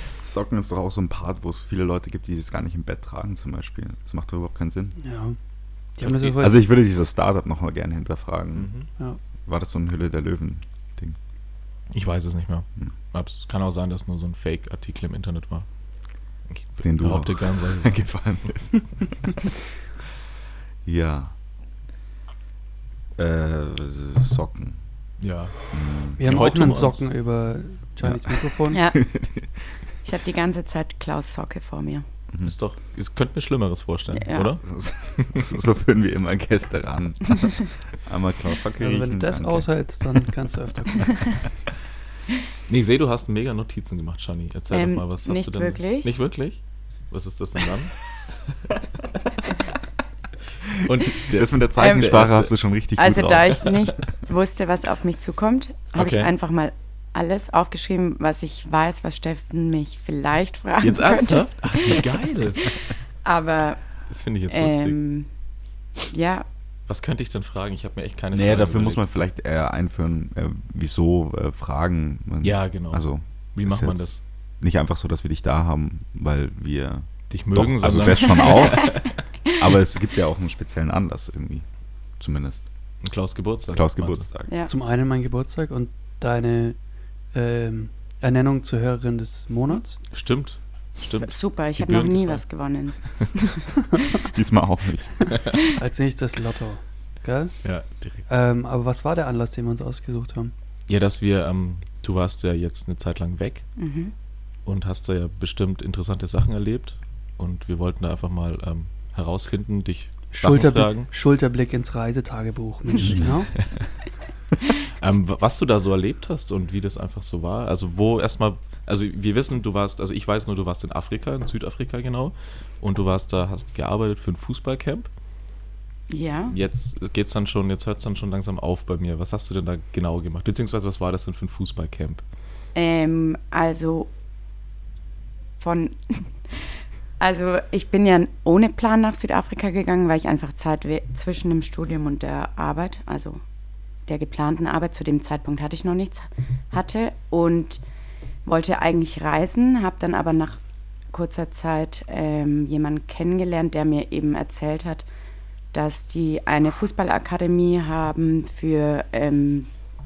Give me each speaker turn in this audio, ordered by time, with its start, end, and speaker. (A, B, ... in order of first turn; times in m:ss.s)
0:00.2-0:05.0 A
0:05.0-0:05.4 B
0:06.0-0:06.6 B
0:06.0-0:08.7 A
0:08.5-0:08.9 C
0:09.4-0:11.2 A
0:11.9-0:15.7 C
0:16.5-0:18.5 C
0:16.8-0:19.6 A
0:20.8-0:21.3 A
0:23.2-0:24.8 A
0:25.2-0:25.6 C
0:25.7-0:26.5 A
0:26.2-0:28.8 B
0:26.2-0:27.1 C
0:28.0-0:29.5 A
0:28.7-0:29.0 D
0:30.0-0:32.0 D
0:32.4-0:34.6 C
0:34.2-0:34.6 D
0:34.6-0:39.8 A
0:35.2-0:35.5 C
0:38.8-0:41.5 B
0:42.7-0:48.0 C
0:44.7-0:46.2 D
0:50.8-0:52.5 C
0:51.2-0:53.8 A
0:51.8-0:52.2 D
0:53.0-1:02.0 D
0:56.0-0:56.3 C
1:00.8-1:02.7 C
1:03.2-1:03.8 D
1:04.1-1:05.0 C
1:04.5-1:05.3 D
1:06.0-1:06.5 D
1:06.9-1:09.2 C
1:08.3-1:14.1 A
1:12.4-1:14.2 C
1:14.6-1:19.0 A
1:17.3-1:19.2 C
1:19.6-1:21.6 A
1:22.2-1:22.7 A
1:23.0-1:24.3 C
1:23.7-1:24.5 A
1:24.7-1:26.8 B
1:27.3-1:30.0 B
1:30.1-1:32.4 C
1:31.2-1:33.7 D
1:34.3-1:35.5 A
1:35.3-1:35.6 C
1:35.7-1:37.6 B
1:37.6-1:38.3 C
1:38.3-1:40.5 B
1:40.9-1:43.7 C
1:43.8-1:44.1 D
1:44.7-1:51.1 C
1:50.3-1:53.6 B
1:53.0-1:53.3 A
1:55.0-2:05.1 C
2:06.1-2:06.6 D
2:06.5-2:12.2 C
2:12.8-2:14.1 D
2:15.6-2:16.3 D
2:17.2-2:23.4 D
2:24.1-2:27.8 D
2:28.4-2:30.6 D
2:31.1-2:35.0 D
2:35.7-2:39.7 D